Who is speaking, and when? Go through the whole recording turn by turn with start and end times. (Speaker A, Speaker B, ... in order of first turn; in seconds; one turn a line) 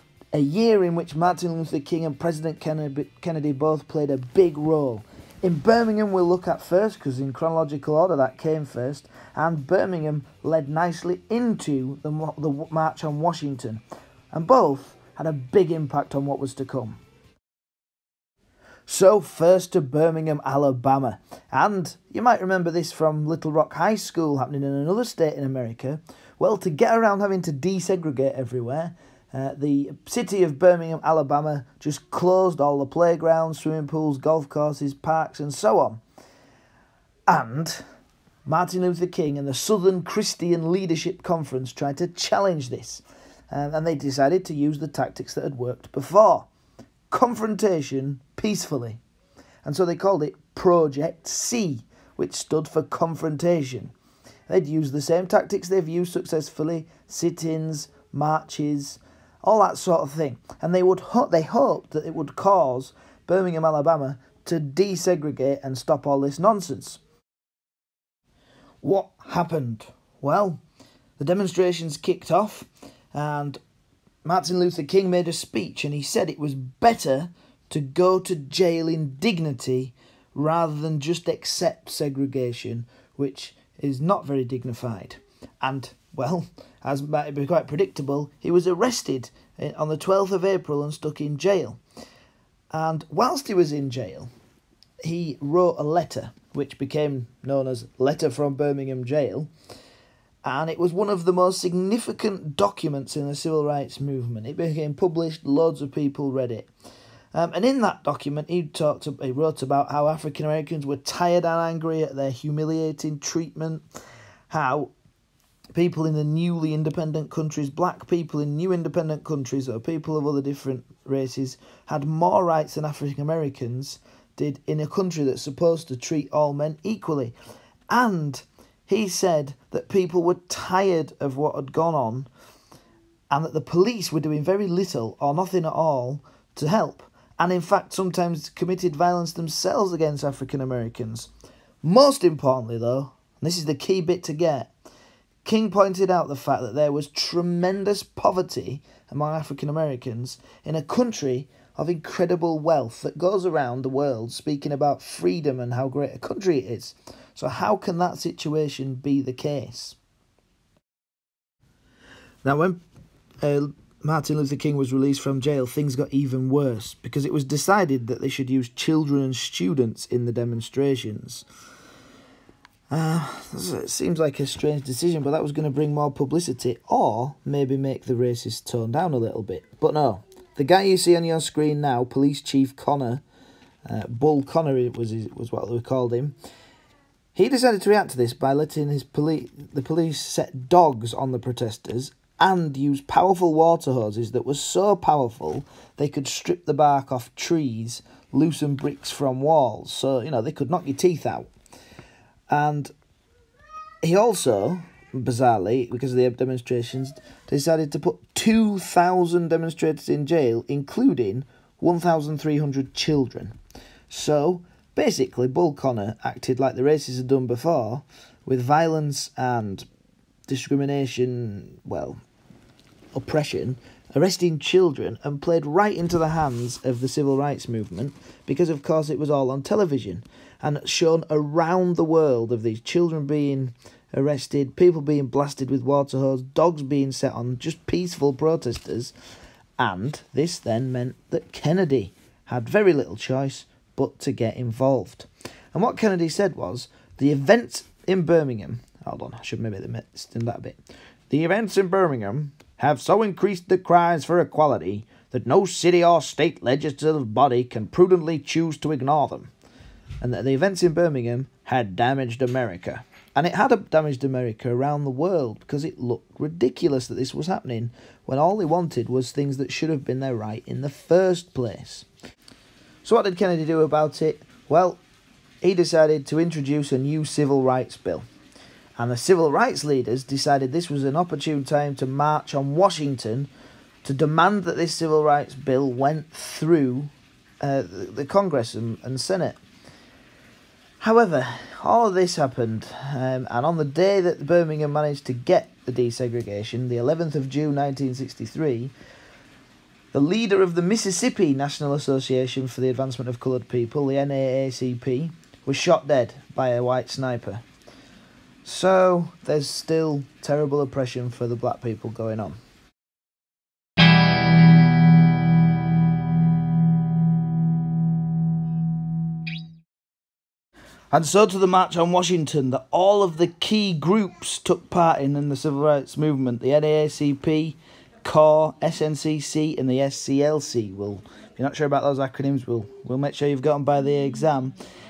Speaker A: 0.3-13.8
Speaker A: 14.3-17.0
Speaker A: 18.9-36.0
Speaker A: 37.3-37.8
Speaker A: 38.5-46.5
Speaker A: 47.1-49.0
Speaker A: 49.6-53.9
Speaker A: 54.5-67.0
Speaker A: 68.8-70.6
Speaker A: 71.2-73.6
Speaker A: 74.2-91.8
Speaker A: 92.7-94.3
Speaker A: 95.0-99.5
Speaker A: 100.4-106.7
Speaker A: 107.3-113.8
Speaker A: 114.5-114.9
Speaker A: 115.8-127.3
Speaker A: 127.9-132.3
Speaker A: 133.3-141.3
Speaker A: 141.8-144.7
Speaker A: 145.4-160.0
Speaker A: 162.4-162.8
Speaker A: 163.4-171.4
Speaker A: 172.9-183.2
Speaker A: 183.9-186.4
Speaker A: 187.3-201.5
Speaker A: 202.5-202.9
Speaker A: 204.0-213.6
Speaker A: 214.1-219.9
Speaker A: 220.5-222.2
Speaker A: 223.1-239.1
Speaker A: 239.8-250.8
Speaker A: 251.3-259.5
Speaker A: 260.2-272.1
Speaker A: 273.0-275.0
Speaker A: 275.6-278.2
Speaker A: 279.0-283.5
Speaker A: 284.0-289.6
Speaker A: 291.0-298.9
Speaker A: 300.1-307.6
Speaker A: 308.6-312.6
Speaker A: 321.1-334.8